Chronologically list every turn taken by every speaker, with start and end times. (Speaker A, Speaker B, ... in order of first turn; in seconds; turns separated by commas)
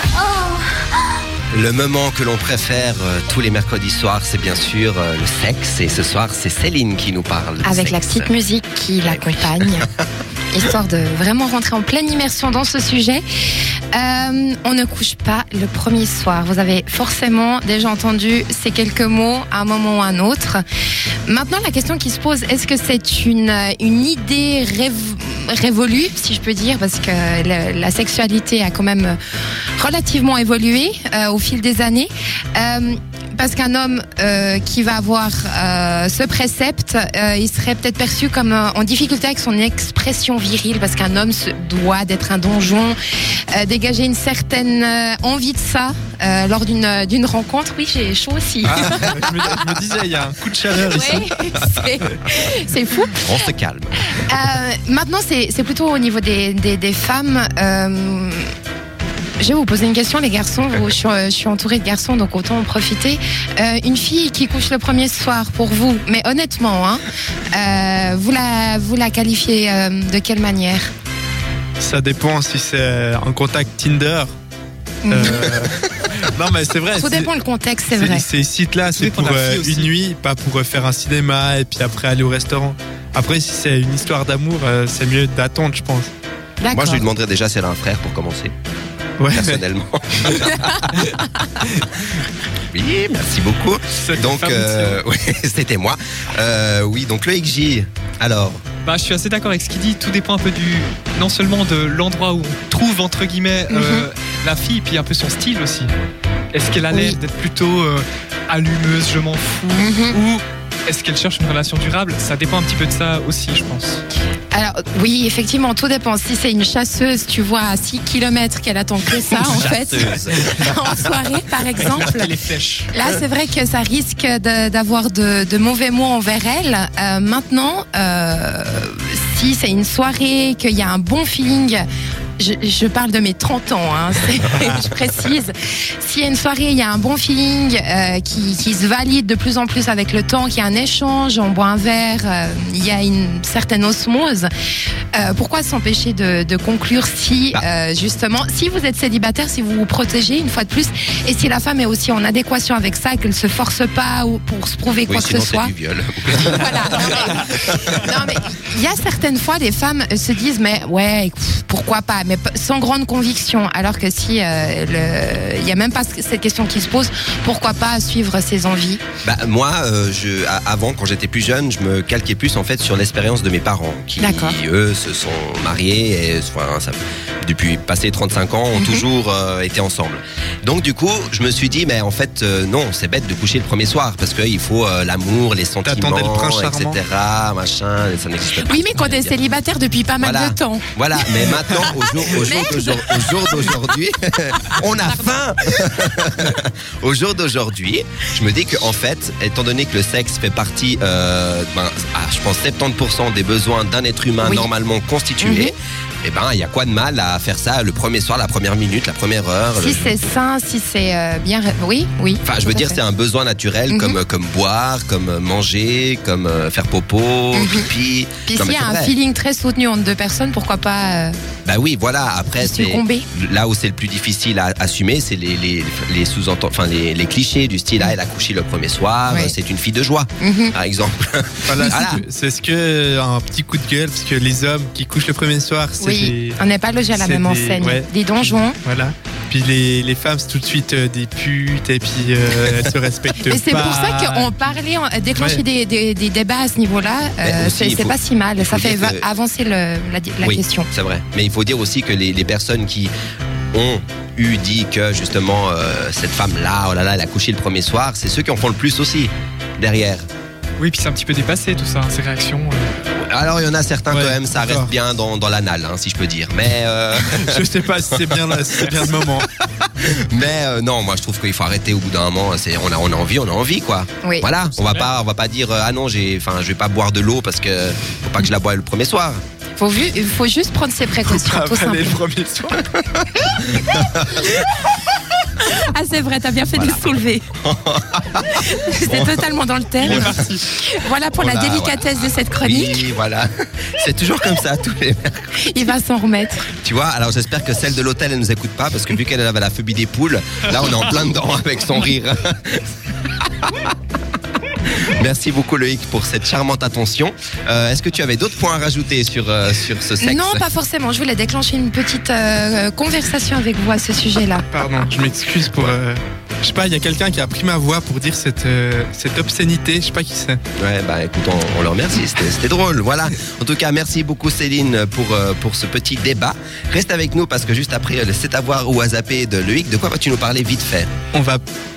Speaker A: 0.2-0.5, Speaker B: 1.5-8.3, Speaker A: 7.6-9.9, Speaker B: 9.1-10.1, Speaker A: 10.5-13.2, Speaker A: 13.9-20.6, Speaker A: 21.3-29.2, Speaker A: 29.8-43.0, Speaker A: 43.5-49.7, Speaker C: 48.6-51.3, Speaker A: 50.8-53.2, Speaker B: 53.2-54.3, Speaker A: 54.1-58.5, Speaker A: 59.4-67.0, Speaker A: 67.5-70.9, Speaker C: 71.8-74.3, Speaker A: 75.0-75.5, Speaker C: 75.1-77.3, Speaker B: 75.5-75.8, Speaker A: 77.0-78.3, Speaker C: 77.9-86.1, Speaker D: 78.9-79.9, Speaker A: 86.6-87.1, Speaker B: 86.7-88.5, Speaker C: 89.2-89.6, Speaker B: 89.3-91.0, Speaker A: 90.4-91.5, Speaker C: 91.0-91.8, Speaker B: 92.7-98.6, Speaker D: 94.0-95.0, Speaker D: 98.9-105.9, Speaker A: 103.7-104.1, Speaker D: 106.5-114.0, Speaker A: 106.9-107.2, Speaker A: 109.8-110.2, Speaker A: 114.5-122.3, Speaker B: 119.3-121.1, Speaker D: 121.8-122.9, Speaker A: 122.9-131.8, Speaker A: 132.4-144.5, Speaker A: 145.1-155.7, Speaker B: 155.1-156.9, Speaker A: 156.3-169.0, Speaker B: 157.6-158.1, Speaker B: 169.2-189.3, Speaker A: 174.2-174.6, Speaker A: 178.8-179.0, Speaker C: 185.8-187.0, Speaker A: 188.5-193.7, Speaker B: 190.2-210.2, Speaker A: 194.6-195.3, Speaker A: 204.4-204.7, Speaker A: 205.4-205.7, Speaker A: 209.8-213.0, Speaker B: 212.4-219.1, Speaker A: 213.9-214.2, Speaker A: 217.5-217.9, Speaker A: 218.4-221.4, Speaker B: 221.7-232.2, Speaker A: 222.6-223.2, Speaker A: 230.4-230.7, Speaker C: 231.7-236.6, Speaker A: 236.0-238.8, Speaker C: 237.1-244.6, Speaker B: 242.6-242.9, Speaker A: 243.5-250.9, Speaker C: 245.3-245.6, Speaker B: 247.4-249.3, Speaker B: 250.4-253.1, Speaker B: 253.7-260.3, Speaker D: 260.8-262.9, Speaker B: 263.2-279.4, Speaker C: 264.1-264.9, Speaker C: 267.2-269.5, Speaker D: 274.8-275.1, Speaker A: 279.8-282.2, Speaker C: 281.2-282.9, Speaker B: 282.9-284.5, Speaker A: 285.6-287.5, Speaker B: 286.7-287.0, Speaker B: 287.6-289.5, Speaker A: 288.6-293.0, Speaker B: 290.0-290.5, Speaker C: 290.1-290.6, Speaker B: 291.4-292.0, Speaker B: 292.6-295.7, Speaker A: 295.6-296.7, Speaker B: 296.7-303.9, Speaker B: 304.9-310.6, Speaker A: 310.2-314.7, Speaker C: 314.7-320.6, Speaker B: 320.8-331.1, Speaker C: 331.3-331.6